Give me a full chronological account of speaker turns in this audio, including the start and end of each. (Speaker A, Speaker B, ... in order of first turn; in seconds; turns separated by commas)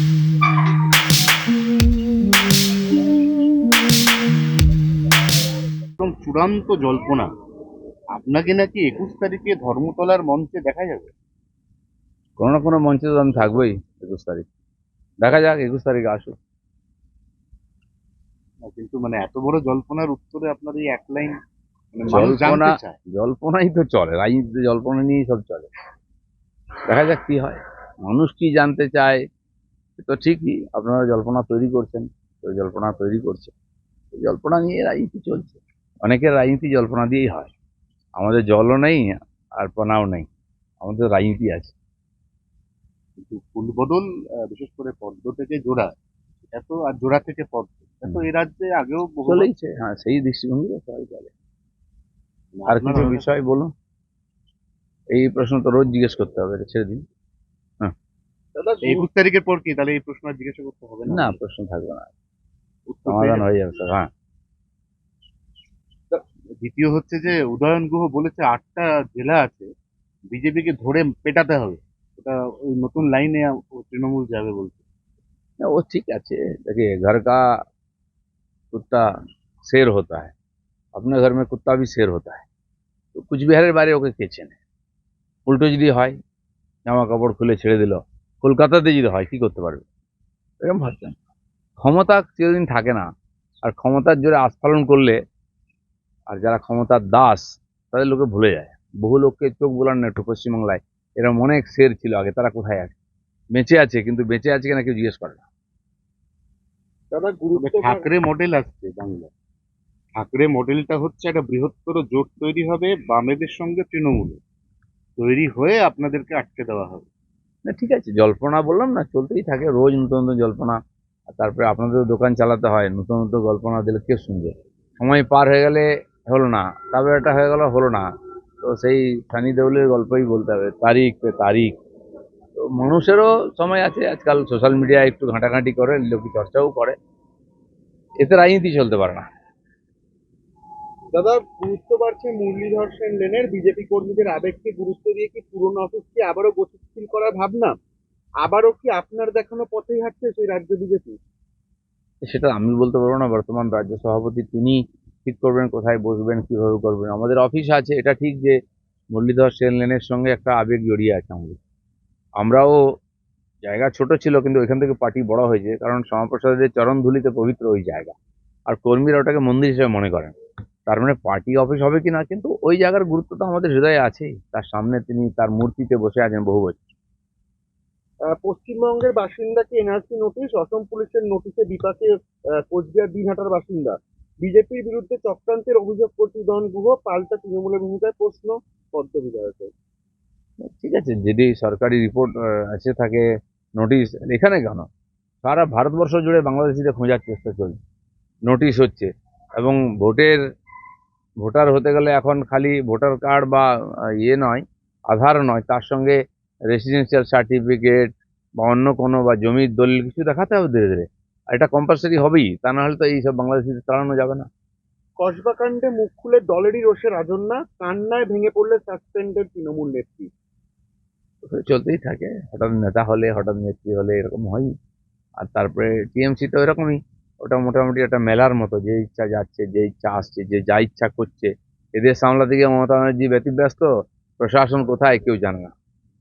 Speaker A: 6.0-7.3, Speaker A: 8.1-11.1, Speaker B: 12.4-14.4, Speaker A: 13.3-13.7, Speaker B: 15.2-16.4, Speaker A: 18.7-21.3, Speaker A: 21.9-23.0, Speaker B: 22.1-25.7, Speaker B: 26.9-29.2, Speaker B: 30.0-33.5, Speaker B: 34.1-37.5, Speaker B: 38.2-40.3, Speaker B: 40.8-41.7, Speaker A: 43.2-46.0, Speaker A: 46.5-49.5, Speaker B: 49.3-51.3, Speaker A: 52.5-53.2, Speaker B: 52.7-53.7, Speaker B: 55.1-57.0, Speaker C: 58.5-59.1, Speaker A: 58.8-61.4, Speaker B: 61.1-62.1, Speaker A: 62.9-63.5, Speaker B: 63.1-64.1, Speaker A: 66.1-69.7, Speaker A: 70.3-74.8, Speaker B: 75.6-77.4, Speaker B: 78.7-79.0, Speaker B: 79.7-80.3, Speaker B: 81.0-82.5, Speaker B: 83.1-84.6, Speaker B: 85.5-86.2, Speaker B: 86.9-89.9, Speaker B: 90.6-91.2, Speaker B: 91.8-93.1, Speaker B: 93.6-95.2, Speaker B: 96.3-103.0, Speaker B: 103.5-105.5, Speaker C: 107.1-108.1, Speaker A: 107.6-109.3, Speaker A: 110.2-114.4, Speaker A: 115.2-117.1, Speaker B: 117.7-120.8, Speaker B: 121.3-128.0, Speaker B: 128.6-131.7, Speaker B: 132.5-137.0, Speaker B: 138.2-139.3, Speaker C: 141.1-147.8, Speaker C: 148.4-151.2, Speaker B: 152.2-158.6, Speaker B: 159.1-161.6, Speaker B: 162.4-162.8, Speaker B: 163.6-168.2, Speaker B: 168.7-170.3, Speaker B: 170.9-176.8, Speaker C: 178.3-182.1, Speaker C: 182.7-189.7, Speaker B: 190.6-193.2, Speaker B: 193.8-194.9, Speaker B: 195.4-197.8, Speaker B: 198.5-200.4, Speaker B: 201.4-203.7, Speaker B: 204.2-206.2, Speaker B: 206.7-214.5, Speaker C: 215.2-220.3, Speaker B: 221.4-224.7, Speaker B: 225.4-235.7